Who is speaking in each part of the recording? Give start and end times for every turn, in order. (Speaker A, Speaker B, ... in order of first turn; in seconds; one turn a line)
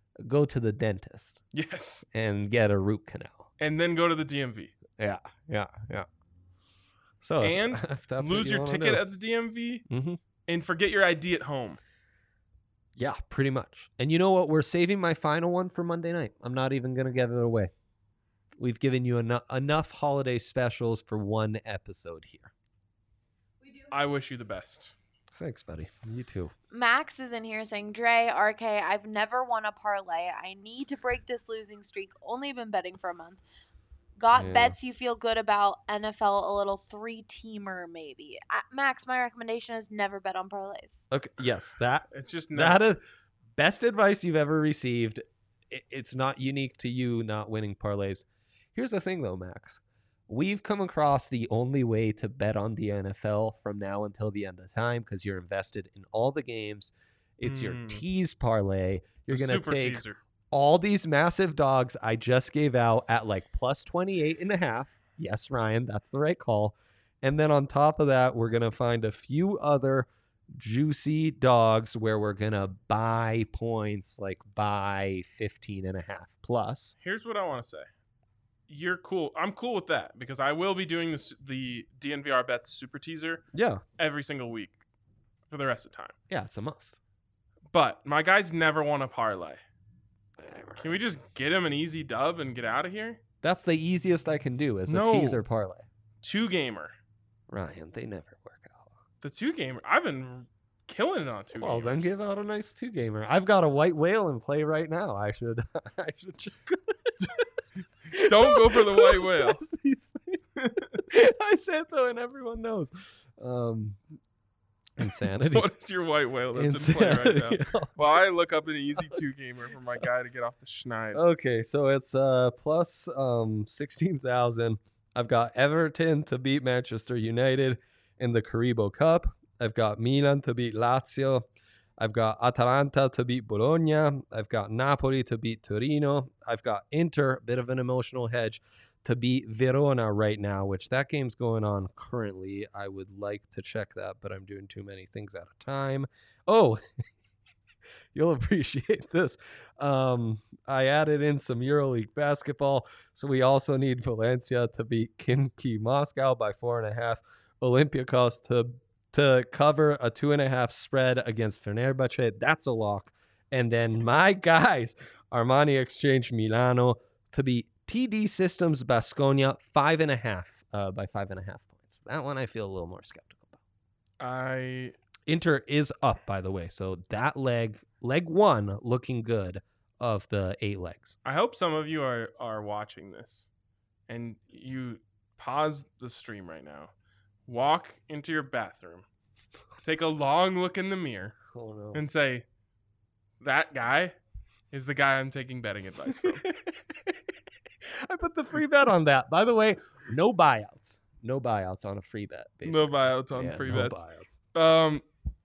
Speaker A: 0.2-1.4
Speaker B: 1.5-2.0
Speaker A: 2.1-3.5
Speaker B: 3.6-4.7
Speaker A: 5.0-6.1
Speaker A: 7.2-9.1
Speaker B: 7.4-9.8
Speaker A: 9.9-10.2
Speaker B: 10.5-11.8
Speaker A: 13.0-17.7
Speaker A: 18.6-22.5
Speaker B: 23.9-24.9
Speaker A: 25.3-26.5
Speaker C: 26.7-33.4
Speaker C: 34.2-41.0
Speaker A: 34.3-34.8
Speaker A: 41.1-43.0
Speaker B: 42.1-42.8
Speaker A: 43.5-77.0
Speaker B: 57.4-58.0
Speaker B: 59.3-60.2
Speaker B: 77.0-77.9
Speaker B: 78.7-83.4
Speaker A: 83.5-83.8
Speaker B: 84.0-84.8
Speaker B: 85.5-86.1
Speaker A: 86.3-87.0
Speaker B: 87.7-89.6
Speaker A: 90.4-91.0
Speaker B: 90.8-93.2
Speaker A: 93.4-95.8
Speaker B: 94.9-95.4
Speaker B: 96.2-97.0
Speaker A: 97.5-98.9
Speaker B: 99.2-102.1
Speaker A: 101.5-107.4
Speaker B: 108.1-109.6
Speaker A: 108.1-114.0
Speaker B: 110.6-111.0
Speaker A: 115.0-115.7
Speaker B: 115.5-121.2
Speaker A: 116.5-118.0
Speaker A: 121.1-131.4
Speaker A: 132.0-146.8
Speaker A: 148.1-173.6
Speaker B: 174.2-174.9
Speaker A: 175.3-181.2
Speaker B: 181.2-183.5
Speaker B: 184.1-186.9
Speaker B: 187.4-189.1
Speaker B: 189.8-191.4
Speaker A: 191.5-192.0
Speaker B: 191.9-192.4
Speaker B: 193.4-194.2
Speaker B: 194.7-196.4
Speaker A: 196.1-197.3
Speaker A: 197.9-204.4
Speaker B: 202.7-205.1